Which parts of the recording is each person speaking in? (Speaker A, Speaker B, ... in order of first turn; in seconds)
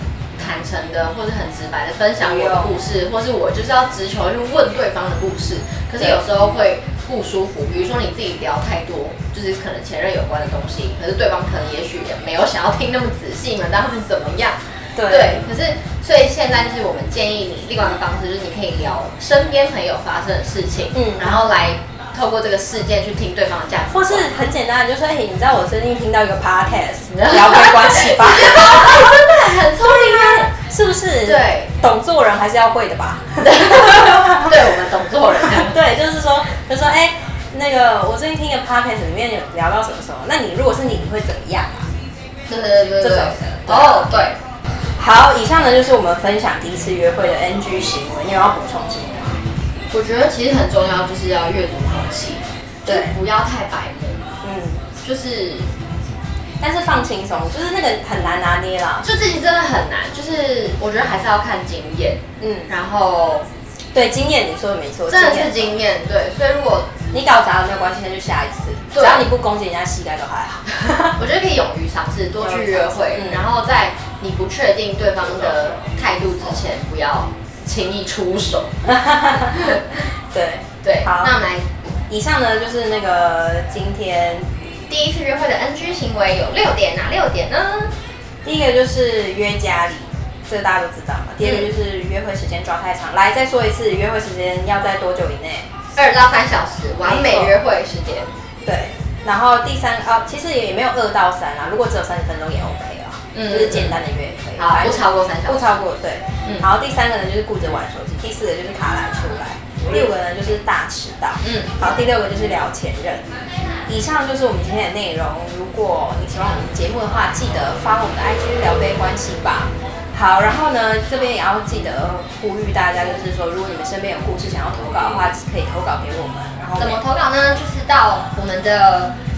Speaker A: 0.4-24.3, 27.1-30.5, 31.2-31.7, 33.4-35.8, 42.5-44.4, 49.9-54.3, 55.0-55.7, 59.0-63.5, 65.1-66.9, 68.9-69.2, 71.2-78.8, 79.5-79.9, 80.8-81.7, 84.9-87.9, 96.0-98.3, 103.3-104.0, 104.6-105.7, 111.4-111.7, 126.8-129.1
Speaker B: 2.2-2.8, 15.0-15.4, 20.9-21.5, 23.9-34.6, 35.4-41.9, 42.5-44.1, 45.0-49.4, 52.9-53.1, 54.4-54.8, 56.6-59.1, 62.4-62.7, 63.9-65.8, 67.1-71.2, 72.4-73.5, 78.8-81.4, 82.1-84.5, 88.4-95.7, 97.0-97.6, 98.7-113.2, 113.9-127.0